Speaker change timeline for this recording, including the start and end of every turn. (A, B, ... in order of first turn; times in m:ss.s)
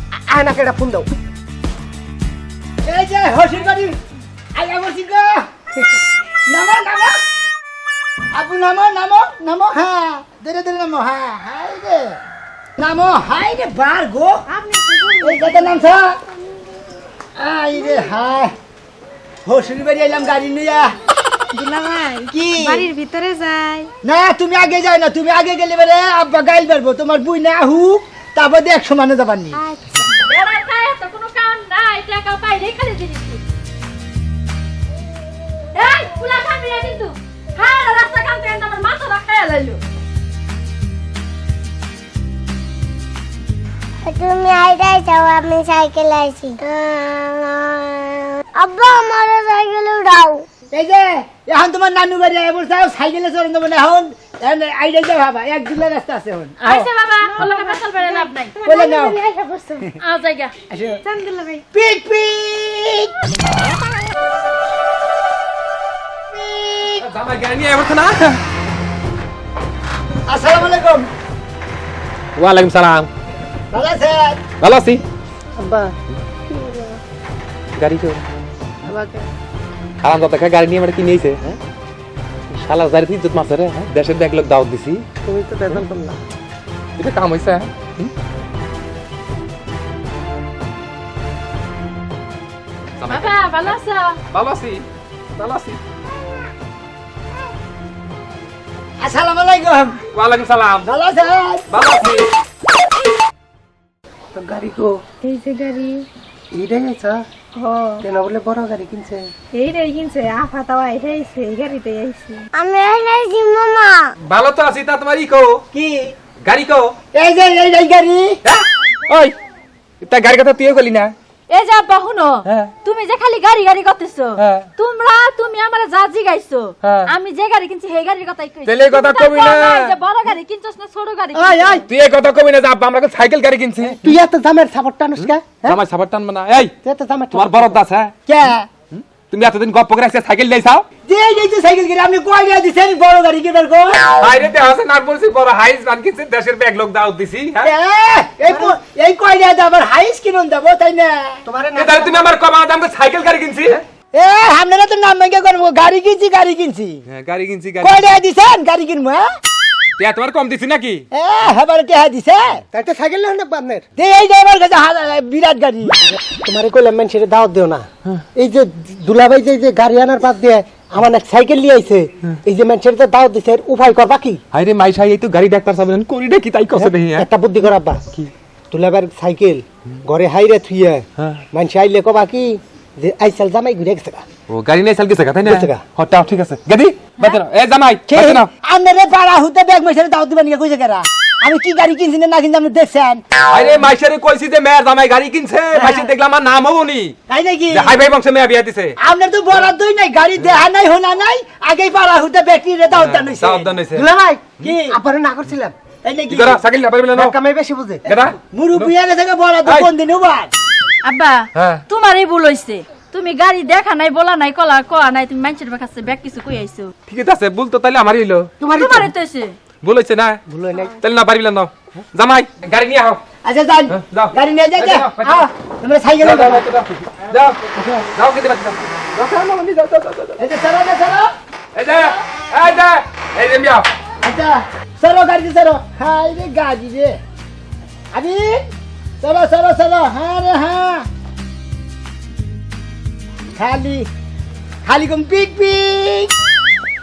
0:00.3-0:01.1 A
0:02.8-0:04.0 B
0:04.5-0:06.0 B
0:06.5-0:07.2 B
0:08.3-0:12.2 B
0:12.8-0:14.4 B
0:14.5-0:15.9 C
0:15.2-0:16.2 B
0:17.4-0:18.5 B
0:19.4-0:20.9 B
0:21.5-0:23.9 C
0:22.3-0:22.9 B
0:24.0-0:29.6 B
0:30.1-0:33.4 D
0:35.7-0:39.8 D
0:44.0-0:50.5 E
0:50.7-0:56.9 B
0:56.6-0:58.6 D
0:57.3-0:59.9 C
0:58.6-0:59.2 B
1:00.0-1:00.5 D
1:00.7-1:01.0 B
1:01.0-1:01.6 C
1:01.7-1:03.2 B
1:06.3-1:07.0 B
1:07.0-1:08.4 F
1:10.3-1:11.1 B
1:12.4-1:13.1 F
1:13.7-1:14.4 B
1:14.6-1:15.0 F
1:15.6-1:15.9 A
1:16.5-1:16.9 A
1:17.8-1:18.2 F
1:18.8-1:19.3 A
1:20.0-1:21.6 F
1:22.5-1:25.0 F
1:25.2-1:26.2 A
1:27.0-1:28.1 F
1:33.0-1:33.8 F
1:33.1-1:34.2 D
1:34.3-1:34.8 F
1:35.4-1:35.8 F
1:39.0-1:40.0 B
1:40.1-1:40.9 F
1:40.8-1:41.7 B
1:41.7-1:42.3 F
1:44.3-1:45.0 A
1:45.2-1:46.0 C
1:46.5-1:47.2 A
1:47.6-1:48.0 C
1:48.0-1:49.3 A
1:49.5-1:52.5 C
1:52.5-1:54.1 E
1:54.2-1:55.6 F
1:55.7-1:56.1 B
1:56.4-1:56.9 F
1:57.1-1:58.4 B
1:58.4-1:59.3 F
2:00.0-2:01.1 F
2:01.5-2:11.8 D
2:02.4-2:02.7 F
2:04.4-2:04.7 F
2:06.8-2:07.1 F
2:08.6-2:09.9 F
2:11.3-2:11.8 A
2:11.9-2:14.1 F
2:13.9-2:15.8 A
2:15.2-2:16.7 F
2:16.8-2:17.8 A
2:17.3-2:18.1 F
2:18.3-2:18.7 B
2:18.9-2:20.8 F
2:21.0-2:24.1 B
2:24.2-2:27.7 F
2:27.6-2:31.4 B
2:28.5-2:28.7 A
2:31.4-2:32.3 A
2:31.7-2:33.8 F
2:34.1-2:37.0 B
2:37.1-2:38.0 F
2:37.8-2:39.3 B
2:40.0-2:41.0 F
2:41.1-2:42.6 B
2:42.7-2:43.8 A
2:44.0-2:46.0 B
2:46.2-2:54.4 A
2:54.5-2:57.3 F
2:56.7-2:58.0 A
2:58.7-3:04.2 A
3:04.5-3:08.5 F
3:05.4-3:05.8 A
3:08.1-3:13.2 B
3:13.5-3:17.2 F
3:15.7-3:16.1 B
3:17.3-3:18.0 B
3:17.7-3:19.0 F
3:19.0-3:23.7 B
3:22.9-3:24.1 F
3:23.9-3:25.7 A
3:24.6-3:25.0 B
3:26.0-3:26.6 B
3:26.3-3:27.3 F
3:27.1-3:28.0 A
3:28.1-3:28.9 F
3:28.1-3:30.5 B
3:31.0-3:36.9 D
3:31.5-3:31.8 F
3:37.1-3:38.5 F
3:38.6-3:39.1 A
3:38.7-3:39.6 D
3:39.8-3:40.4 F
3:40.5-3:40.9 A
3:41.0-3:43.2 F
3:43.4-3:46.6 B
3:43.9-3:45.5 F
3:46.2-3:50.4 F
3:50.4-3:51.3 B
3:51.7-3:53.9 F
3:54.2-3:57.2 B
3:58.1-3:58.6 B
3:59.2-4:01.0 B
4:03.6-4:04.1 B
4:04.8-4:06.3 B